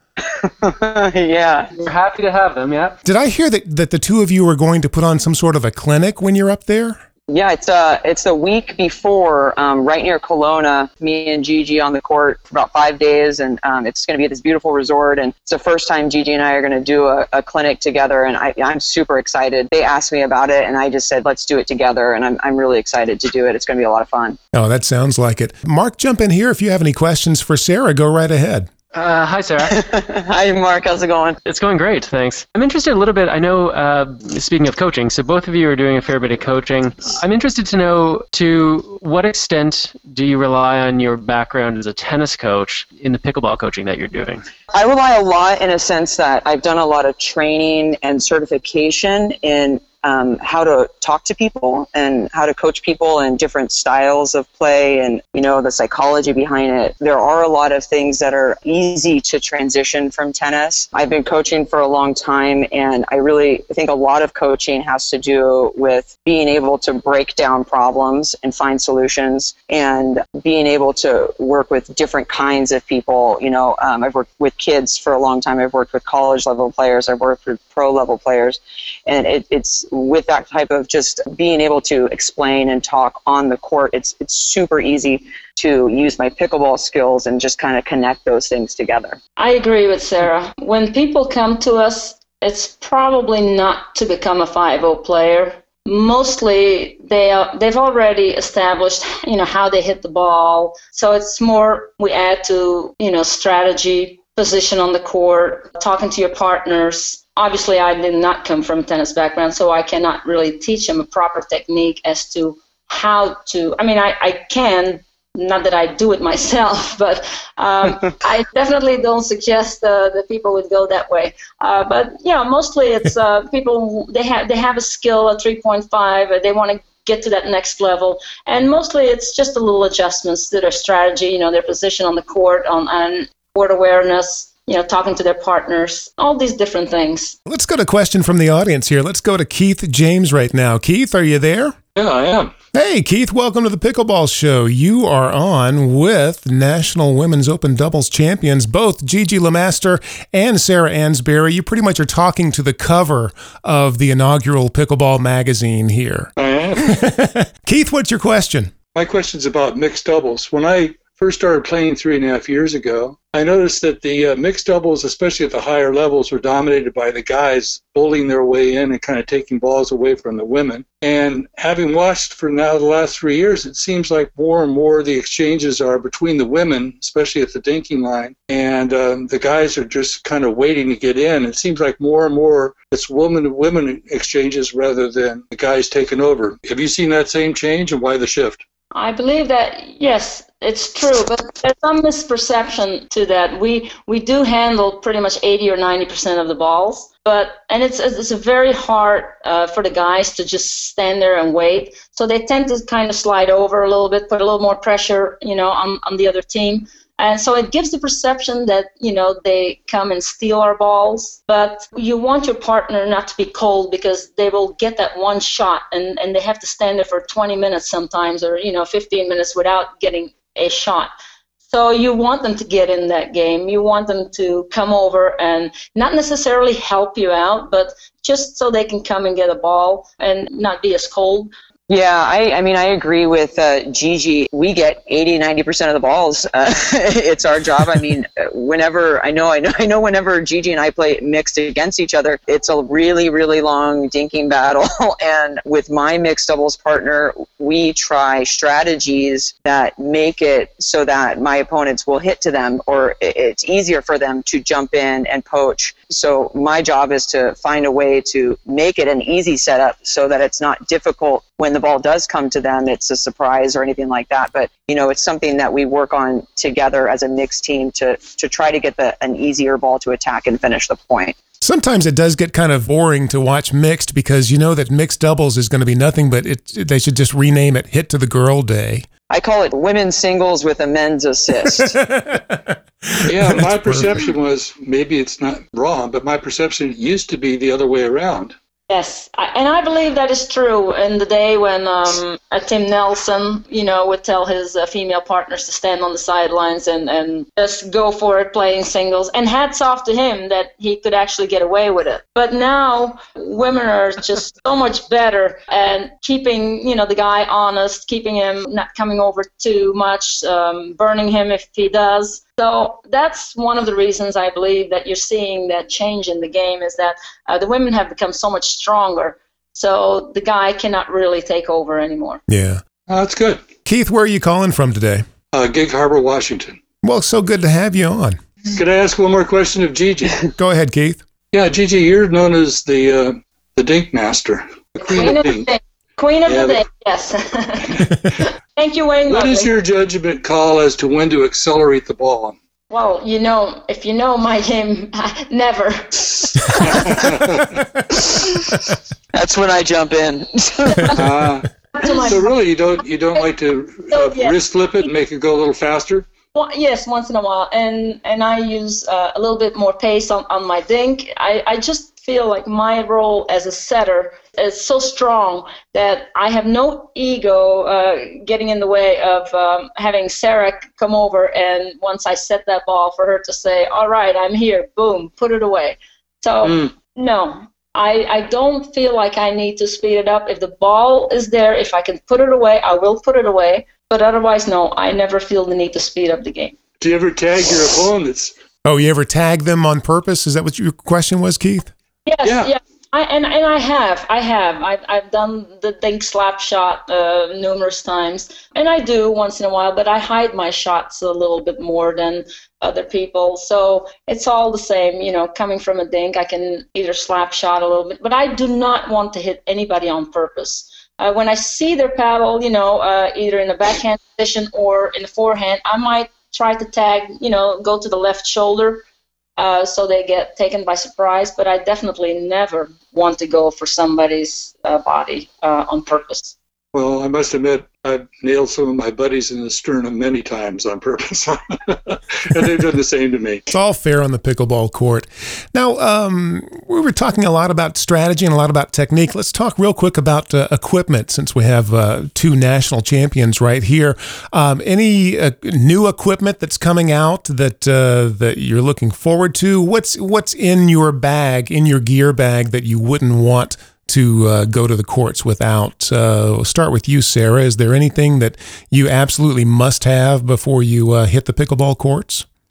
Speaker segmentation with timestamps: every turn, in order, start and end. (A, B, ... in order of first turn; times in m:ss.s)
0:00.4-0:01.7 A
0:01.7-0:03.0 B
0:03.0-0:07.0 C
0:07.3-0:24.4 A
0:24.5-0:28.7 C
0:28.9-0:29.8 B
0:29.7-0:31.4 A
0:31.4-0:44.4 B
0:44.7-1:29.2 A
1:29.4-2:17.4 D
2:17.4-2:21.8 C
2:22.0-2:22.5 E
2:22.7-2:38.7 C
2:36.4-2:37.0 E
2:38.9-3:08.6 E
3:08.9-3:41.1 D
3:41.6-3:51.5 D
3:51.9-4:31.3 A
4:31.6-4:39.1 C
4:39.3-4:41.9 A
4:41.6-4:44.2 C
4:43.2-4:48.5 E
4:48.9-5:22.4 D
5:22.5-5:22.8 C
5:23.1-5:23.6 E
5:23.8-5:25.2 C
5:25.5-5:26.8 E
5:27.0-5:28.4 C
5:28.6-5:30.4 E
5:30.6-5:31.2 C
5:31.5-5:35.6 E
5:35.0-5:39.7 D
5:36.4-5:36.8 E
5:39.3-5:42.6 E
5:42.9-5:46.8 D
5:46.8-5:47.8 E
5:49.3-5:51.2 A
5:51.1-5:56.3 E
5:52.0-5:52.5 D
5:54.1-5:54.5 D
5:56.5-6:26.8 D
6:16.6-6:16.9 E
6:27.0-6:28.5 E
6:28.8-6:31.9 C
6:32.2-6:59.0 D
6:32.4-6:32.7 E
6:59.6-7:06.5 D
7:06.9-7:13.6 E
7:13.7-7:42.4 C